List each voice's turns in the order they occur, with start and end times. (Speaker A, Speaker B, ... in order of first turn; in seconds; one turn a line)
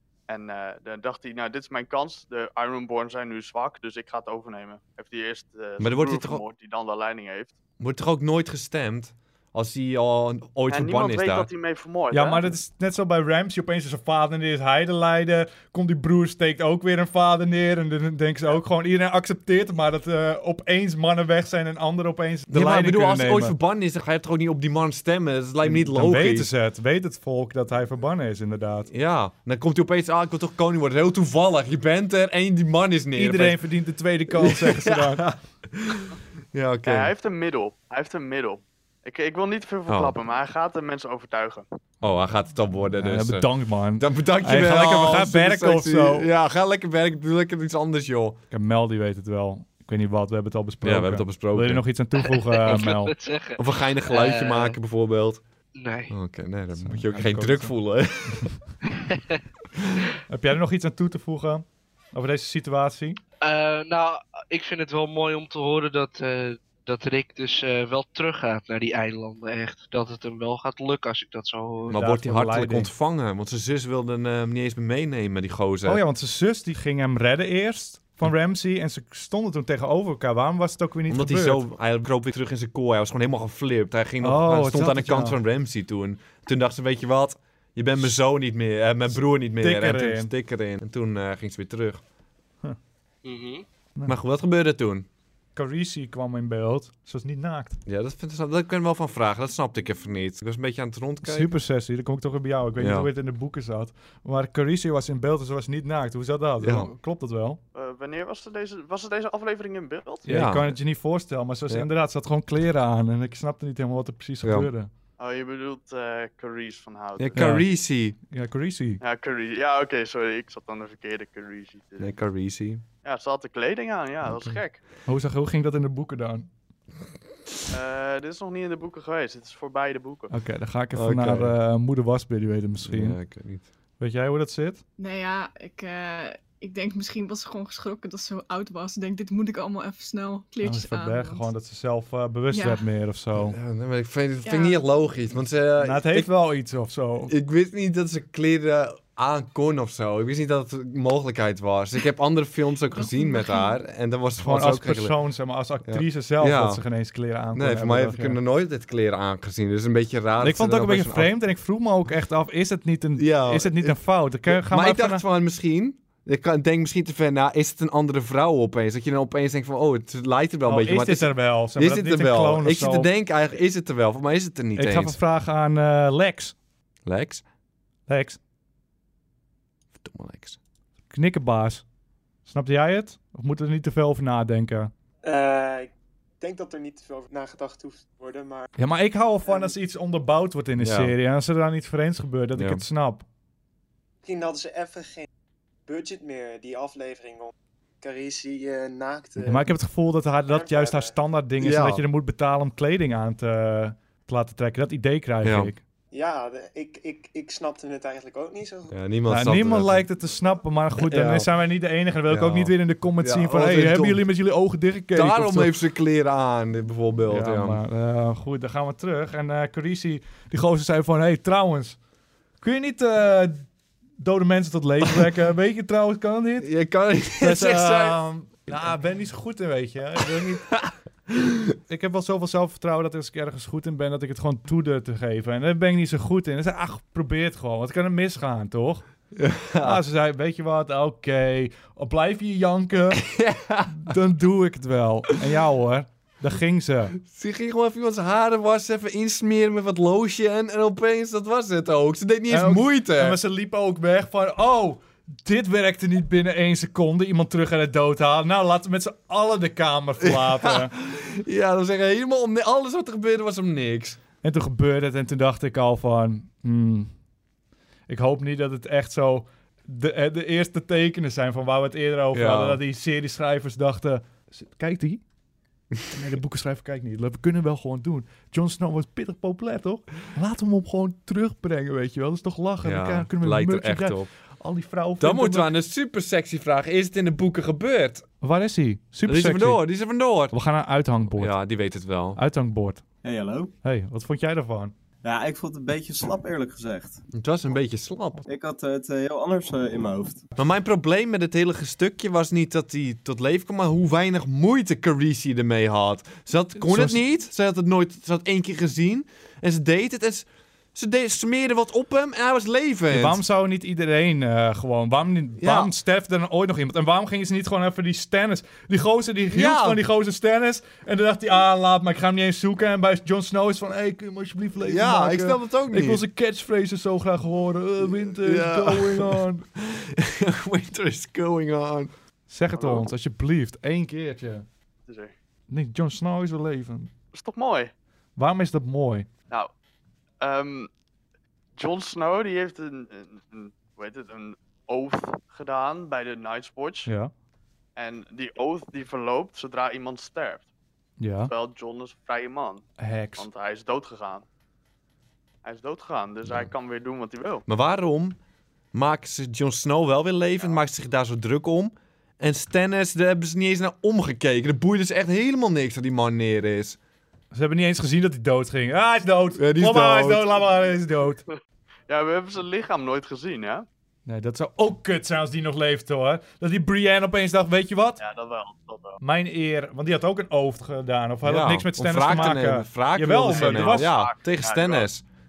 Speaker A: 0.3-7.5
Speaker B: 5.8-6.4
Speaker B: 7.8-11.5
Speaker A: 10.7-12.4
Speaker C: 12.1-23.6
Speaker B: 22.5-26.5
Speaker C: 25.6-28.9
Speaker B: 28.9-33.6
Speaker C: 33.1-35.3
Speaker B: 34.3-37.1
Speaker A: 36.8-41.7
Speaker B: 39.9-40.1
Speaker B: 42.0-48.4
Speaker C: 43.0-46.3
Speaker C: 48.5-53.1
Speaker B: 50.8-51.8
Speaker D: 52.2-54.8
Speaker B: 53.6-55.4
Speaker D: 55.8-56.1
Speaker B: 56.1-58.5
Speaker C: 56.8-57.7
Speaker D: 58.9-59.4
Speaker C: 60.3-63.2
Speaker D: 63.4-72.0
Speaker B: 71.9-76.0
Speaker C: 71.9-72.9
Speaker C: 75.8-81.6
Speaker B: 81.1-92.0
Speaker C: 84.2-85.4
Speaker C: 89.6-90.3
Speaker D: 93.2-93.6
Speaker B: 94.1-95.1
Speaker C: 95.5-97.8
Speaker B: 97.8-101.5
Speaker C: 101.2-107.6
Speaker B: 102.8-103.1
Speaker B: 106.6-106.9
Speaker A: 107.7-110.3
Speaker C: 110.2-114.9
Speaker B: 110.3-110.7
Speaker B: 114.4-114.7
Speaker A: 115.2-117.4
Speaker B: 117.2-118.2
Speaker C: 117.3-117.7
Speaker C: 118.3-119.0
Speaker A: 119.0-122.2
Speaker B: 122.0-122.8
Speaker A: 123.0-124.8
Speaker C: 125.0-126.5
Speaker A: 127.7-130.3
Speaker C: 130.3-133.2
Speaker B: 130.9-131.6
Speaker B: 132.8-133.7
Speaker C: 134.0-134.8
Speaker E: 135.0-141.5
Speaker C: 140.6-143.6
Speaker E: 142.5-142.8
Speaker B: 143.3-146.3
Speaker E: 144.4-144.8
Speaker C: 145.8-147.3
Speaker B: 147.3-155.2
Speaker E: 152.9-153.8
Speaker C: 154.4-158.4
Speaker B: 155.8-156.8
Speaker B: 157.5-161.3
Speaker C: 160.4-165.2
Speaker B: 163.2-175.2
Speaker C: 170.6-173.1
Speaker C: 174.8-176.5
Speaker B: 177.1-177.4
Speaker C: 178.1-178.4
Speaker B: 179.9-180.6
Speaker C: 181.1-181.8
Speaker C: 182.4-184.9
Speaker F: 185.2-188.7
Speaker C: 188.8-193.2
Speaker F: 189.5-189.7
Speaker B: 190.8-191.1
Speaker B: 192.6-192.8
Speaker F: 194.2-195.3
Speaker F: 195.9-199.7
Speaker C: 199.4-205.8
Speaker F: 200.5-201.1
Speaker B: 201.6-202.0
Speaker B: 205.4-205.7
Speaker F: 206.1-208.9
Speaker B: 208.9-210.0
Speaker C: 209.3-215.7
Speaker B: 211.0-211.5
Speaker B: 212.3-214.2
Speaker B: 215.1-217.8
Speaker C: 217.3-222.0
Speaker C: 222.6-223.7
Speaker C: 224.2-226.7
Speaker B: 226.6-228.9
Speaker C: 227.4-230.7
Speaker B: 230.3-231.7
Speaker C: 231.9-239.0
Speaker B: 239.3-240.0
Speaker C: 239.8-243.2
Speaker B: 243.1-244.1
Speaker C: 243.9-247.1
Speaker B: 247.2-253.4
Speaker C: 252.5-260.9
Speaker B: 260.2-264.2
Speaker C: 264.4-267.1
Speaker C: 268.1-275.2
Speaker B: 272.3-272.8
Speaker C: 276.1-285.7
Speaker B: 282.8-284.3
Speaker B: 285.2-288.2
Speaker C: 288.4-289.9
Speaker B: 289.2-290.5
Speaker C: 290.5-291.6
Speaker B: 291.4-292.4
Speaker C: 292.3-293.0
Speaker G: 293.2-293.7
Speaker C: 293.8-294.9
Speaker G: 295.2-297.2
Speaker B: 297.3-298.4
Speaker G: 298.4-300.4
Speaker B: 300.6-313.4
Speaker C: 306.8-307.2
Speaker C: 313.1-329.6
Speaker B: 315.6-315.9
Speaker B: 319.5-320.0
Speaker B: 324.9-326.2
Speaker B: 328.0-332.1
Speaker C: 332.5-334.7
Speaker A: 332.8-333.1
Speaker A: 335.1-335.3
Speaker C: 335.7-337.1
Speaker A: 337.3-337.9
Speaker C: 338.4-339.3
Speaker A: 340.4-340.9
Speaker A: 341.8-347.1
Speaker C: 347.1-347.3
Speaker A: 347.9-350.7
Speaker C: 351.2-351.5
Speaker A: 351.5-352.9
Speaker C: 353.0-353.5
Speaker A: 353.4-354.4
Speaker A: 355.6-357.6
Speaker B: 356.4-356.7
Speaker B: 357.7-358.4
Speaker B: 358.9-367.0
Speaker C: 367.5-371.4
Speaker B: 369.5-370.5
Speaker A: 372.1-373.9
Speaker C: 374.3-378.2
Speaker A: 378.2-379.2
Speaker C: 379.2-384.1
Speaker B: 381.4-385.2
Speaker A: 383.5-385.1